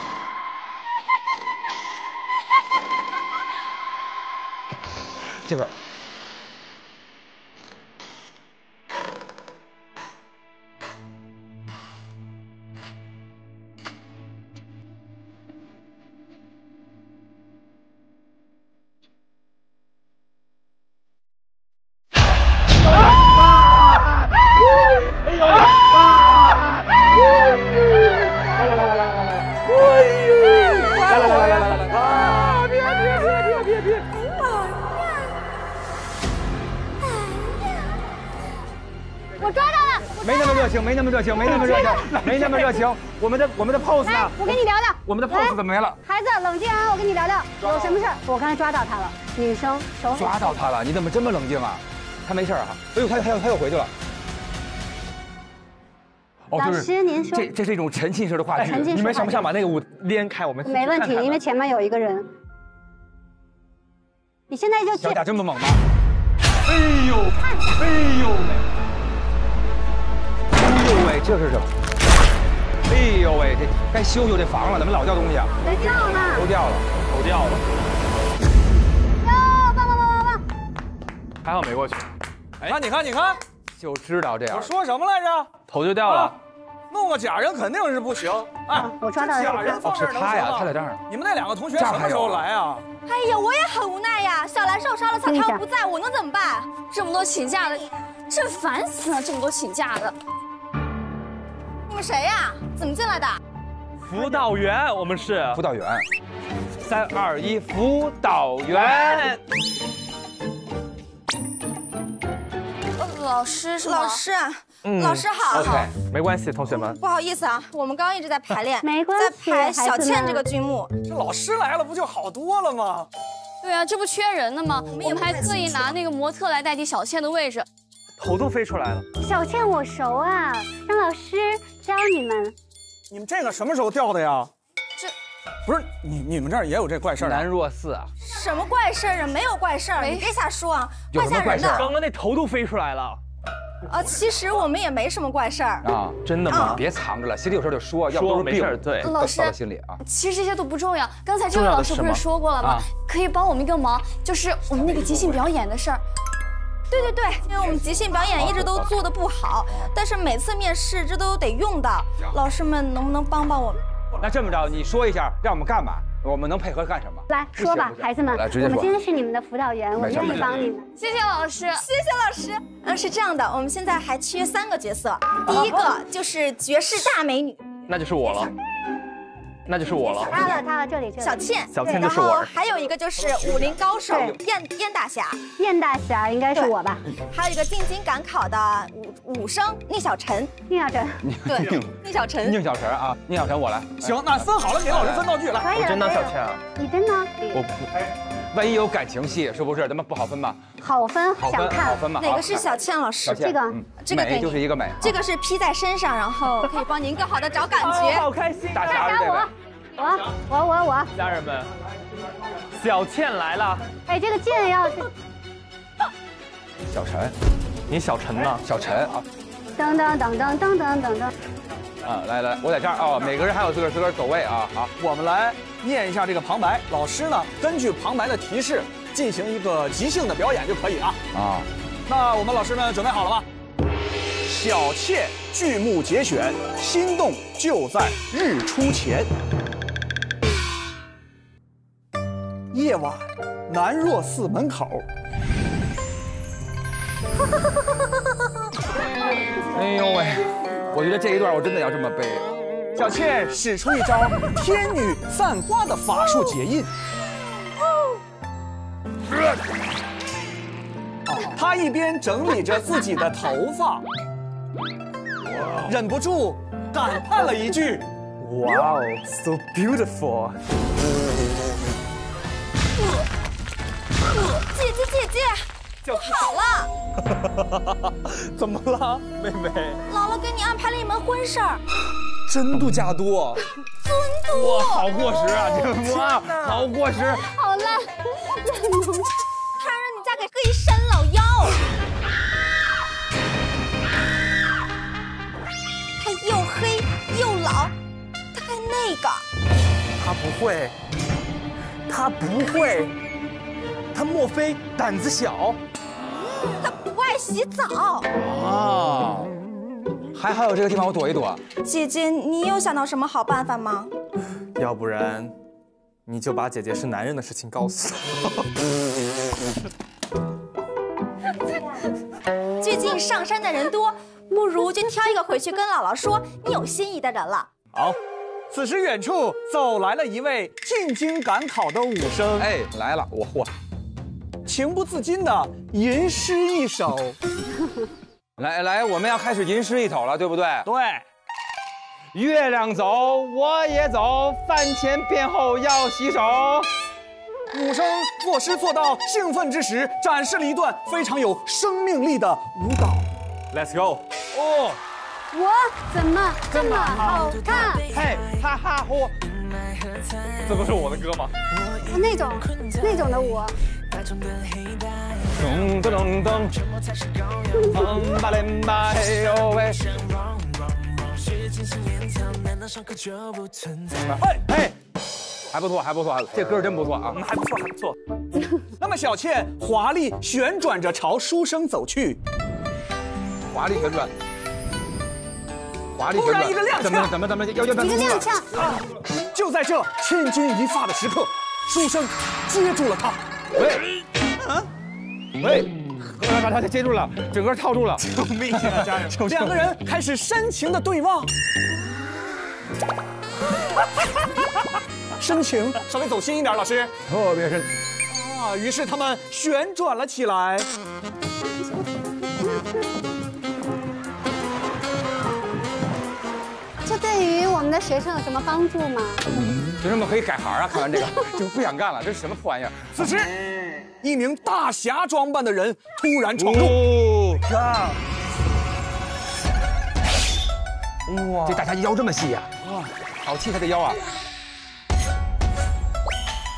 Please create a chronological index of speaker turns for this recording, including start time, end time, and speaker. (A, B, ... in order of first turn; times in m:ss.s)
0:05.4-0:05.7 A
0:30.8-0:32.0 B
0:31.1-0:32.0 A
0:39.4-0:40.6 C
0:40.2-0:46.0 A
0:41.4-0:42.2 C
0:44.0-0:50.6 C
0:50.1-0:53.9 A
0:56.5-0:59.5 A
0:56.5-0:57.5 C
0:58.6-0:59.5 C
0:58.6-1:01.4 B
1:00.6-1:02.3 C
1:04.5-1:05.2 C
1:05.0-1:05.8 A
1:06.7-1:08.6 B
1:10.5-1:11.7 A
1:12.9-1:16.9 A
1:15.6-1:16.4 C
1:17.0-1:17.6 B
1:19.2-1:20.4 C
1:21.4-1:22.1 B
1:22.6-1:23.4 D
1:23.8-1:24.7 A
1:24.5-1:26.3 D
1:25.7-1:26.4 B
1:26.9-1:32.8 D
1:28.7-1:29.9 C
1:29.8-1:31.0 A
1:31.7-1:32.5 A
1:33.0-1:40.2 E
1:35.2-1:35.6 C
1:41.9-1:43.4 E
1:44.0-1:45.6 B
1:45.5-1:46.0 A
1:46.9-1:49.2 A
1:48.7-1:49.4 B
1:53.0-1:55.9 E
1:53.8-1:54.2 F
1:54.8-1:57.0 B
1:56.7-2:00.9 E
1:58.8-2:00.4 C
2:01.1-2:03.1 D
2:03.6-2:07.6 F
2:04.9-2:06.0 E
2:08.2-2:09.1 B
2:09.2-2:12.5 C
2:13.1-2:14.5 D
2:15.6-2:17.4 D
2:17.2-2:17.4 A
2:17.3-2:18.1 B
2:18.2-2:21.9 E
2:20.0-2:20.3 F
2:21.1-2:21.9 A
2:21.6-2:23.2 B
2:23.9-2:25.9 E
2:25.8-2:30.0 A
2:26.2-2:26.8 B
2:26.5-2:26.8 E
2:28.1-2:29.2 B
2:29.1-2:29.4 F
2:30.0-2:36.0 F
2:31.5-2:32.2 B
2:32.6-2:32.9 A
2:36.9-2:43.8 E
2:38.4-2:38.8 B
2:44.2-2:48.9 A
2:47.3-2:50.8 C
2:50.0-2:50.6 A
2:51.0-2:51.6 F
2:51.2-2:57.6 E
2:57.9-2:58.5 B
2:59.7-3:00.4 B
3:00.0-3:00.6 E
3:00.2-3:01.5 C
3:01.2-3:05.4 E
3:01.7-3:02.5 B
3:04.1-3:04.4 C
3:05.6-3:07.0 C
3:07.3-3:10.5 E
3:10.7-3:11.2 C
3:11.2-3:15.2 A
3:11.5-3:12.6 E
3:14.0-3:15.8 D
3:15.5-3:17.6 C
3:15.7-3:16.6 B
3:18.5-3:20.7 A
3:20.8-3:22.0 C
3:21.4-3:22.7 A
3:22.2-3:23.4 E
3:23.2-3:25.0 A
3:23.3-3:23.8 C
3:23.9-3:28.3 E
3:27.7-3:29.0 B
3:28.7-3:29.5 A
3:28.8-3:31.1 C
3:31.1-3:31.7 B
3:32.7-3:33.8 B
3:34.1-3:35.1 C
3:36.9-3:37.3 A
3:37.9-3:38.6 B
3:38.6-3:39.2 A
3:39.8-3:41.3 C
3:42.0-3:44.9 A
3:45.0-3:51.2 D
3:51.3-3:51.7 A
3:52.1-3:53.4 D
3:54.4-3:59.3 D
4:02.7-4:05.0 D
4:09.7-4:12.5 A
4:12.9-4:16.9 D
4:21.3-4:24.0 D
4:25.8-4:28.0 D
4:28.4-4:30.6 B
4:34.3-4:36.9 E
4:37.4-4:39.6 D
4:40.0-4:41.8 E
4:42.5-4:43.6 D
4:44.0-4:45.7 E
4:44.5-4:47.4 A
4:47.6-4:48.0 C
4:48.6-4:49.3 C
4:49.8-4:51.8 E
4:56.2-4:57.9 E
4:58.5-4:59.4 E
5:00.2-5:00.9 B
5:02.1-5:03.1 B
5:04.7-5:05.8 B
5:06.6-5:08.2 E
5:08.3-5:09.5 A
5:10.3-5:11.6 A
5:11.8-5:14.1 E
5:14.8-5:15.5 B
5:16.3-5:18.5 B
5:22.8-5:27.7 E
5:28.7-5:32.7 D
5:32.6-5:33.7 A
5:34.6-5:37.4 D
5:38.6-5:40.9 A
5:40.8-5:41.2 D
5:42.3-5:46.9 A
5:47.7-5:53.3 D
5:53.7-5:55.0 B
5:55.5-5:58.1 C
5:56.7-5:59.3 B
6:00.6-6:01.5 B
6:02.0-6:03.7 C
6:05.6-6:06.8 A
6:07.8-6:10.2 A
6:14.4-6:14.9 D
6:15.7-6:17.4 A
6:17.3-6:18.1 B
6:17.4-6:17.9 D
6:19.0-6:22.4 D
6:23.7-6:24.3 A
6:26.2-6:28.5 A
6:26.3-6:27.4 D
6:28.0-6:28.6 C
6:28.8-6:33.4 D
6:33.8-6:34.0 A
6:34.6-6:34.9 D
6:35.6-6:39.7 A
6:38.2-6:41.5 D
6:45.4-6:47.1 D
6:47.3-6:47.9 A
6:48.3-6:50.9 D
6:57.0-6:59.4 C
7:00.0-7:03.4 A
7:03.1-7:03.5 D
7:04.2-7:07.6 D
7:06.6-7:08.2 A
7:11.6-7:12.9 A
7:13.4-7:14.2 A